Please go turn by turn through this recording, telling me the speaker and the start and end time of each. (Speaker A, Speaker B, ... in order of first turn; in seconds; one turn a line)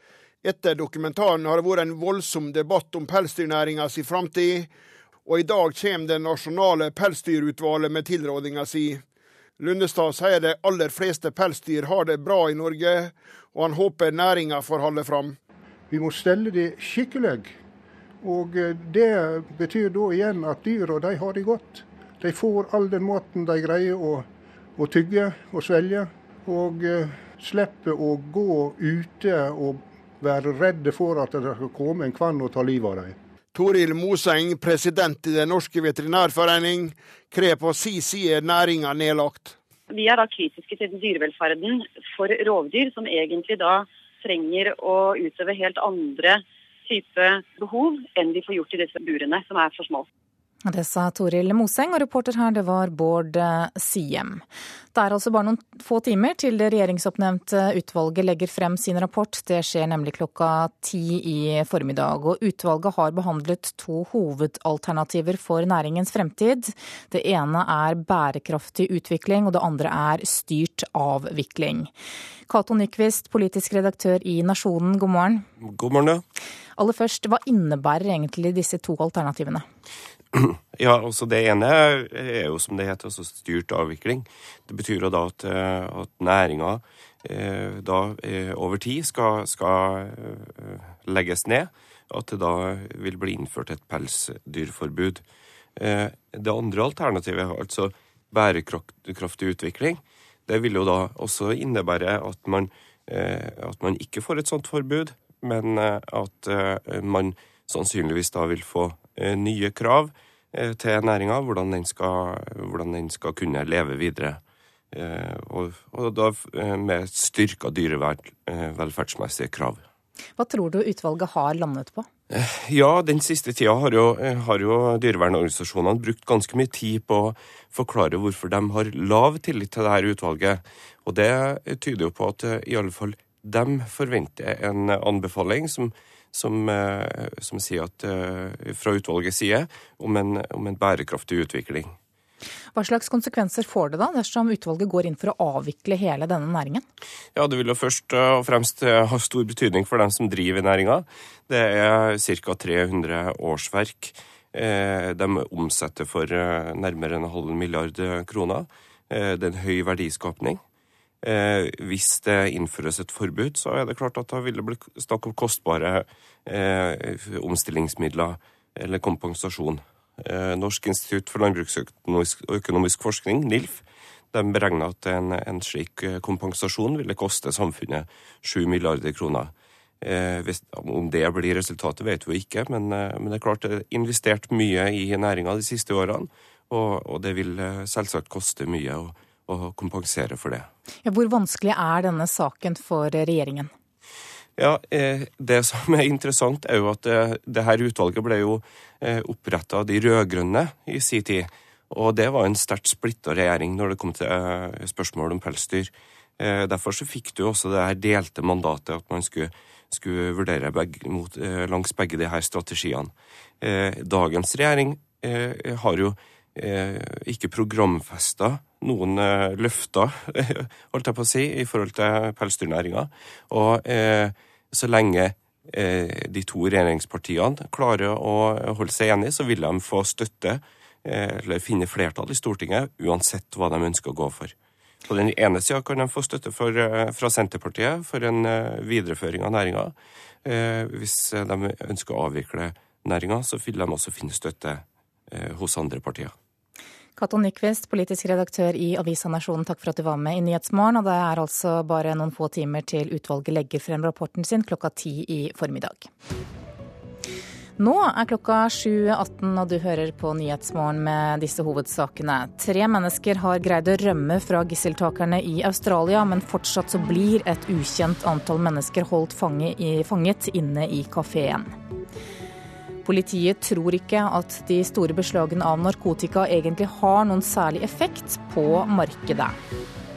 Speaker A: 0.4-4.7
Speaker A: 5.3-9.0
Speaker A: 9.6-15.4
Speaker B: 15.9-17.5
Speaker B: 18.2-24.3
Speaker B: 24.8-33.1
Speaker A: 33.5-39.6
Speaker C: 39.9-50.0
Speaker D: 50.6-71.9
Speaker D: 72.5-75.5
Speaker D: 76.8-79.7
Speaker E: 80.8-95.2
Speaker E: 95.8-114.4
Speaker E: 115.0-119.8
Speaker D: 120.4-122.1
Speaker E: 122.6-141.9
Speaker D: 142.8-146.8
Speaker E: 147.4-160.6
Speaker E: 161.3-173.8
Speaker E: 174.3-179.5
Speaker E: 180.0-190.7
Speaker D: 191.1-193.7
Speaker E: 194.6-213.1
Speaker E: 213.6-234.5
Speaker E: 235.1-239.9
Speaker E: 240.5-246.3
Speaker D: 247.2-256.1
Speaker D: 257.8-271.7
Speaker D: 273.0-279.6